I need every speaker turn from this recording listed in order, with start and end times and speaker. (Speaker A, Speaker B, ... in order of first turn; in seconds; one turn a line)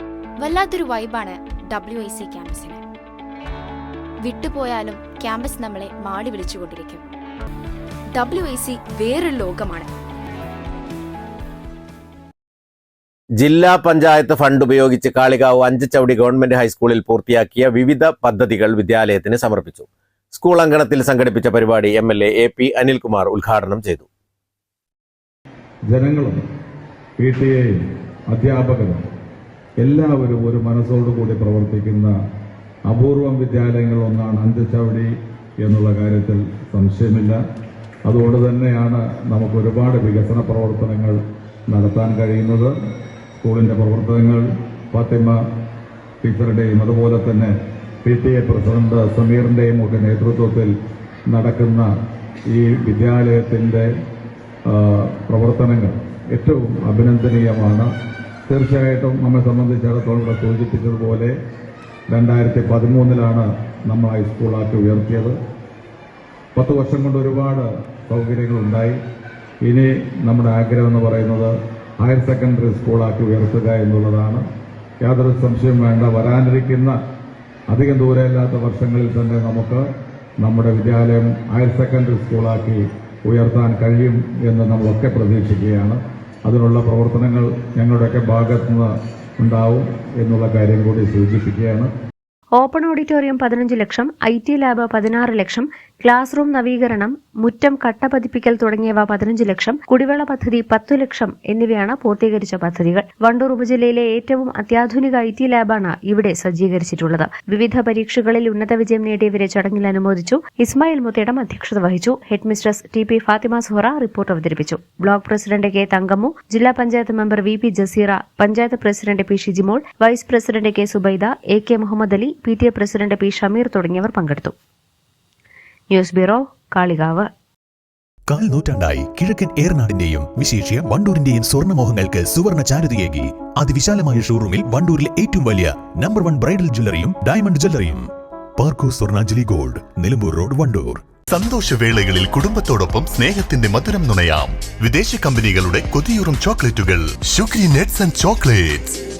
Speaker A: 0.4-2.8
Speaker A: 4.2-7.0
Speaker A: 8.1-9.9
Speaker B: 13.3-24.1
Speaker C: 25.9-26.4
Speaker C: 27.2-29.0
Speaker C: 29.8-32.1
Speaker C: 32.9-35.1
Speaker C: 35.6-37.4
Speaker C: 38.0-41.2
Speaker C: 41.7-42.7
Speaker C: 43.3-45.4
Speaker C: 46.2-47.5
Speaker C: 48.0-50.7
Speaker C: 51.3-51.9
Speaker C: 52.5-53.9
Speaker C: 54.7-57.9
Speaker C: 58.5-61.3
Speaker C: 62.1-65.3
Speaker C: 66.5-69.0
Speaker C: 69.6-74.4
Speaker C: 75.0-76.9
Speaker C: 77.7-79.8
Speaker C: 80.4-91.9
Speaker D: 92.6-124.5
Speaker D: 125.9-127.3
Speaker E: 128.3-138.1
Speaker E: 138.6-141.2
Speaker F: 141.3-148.9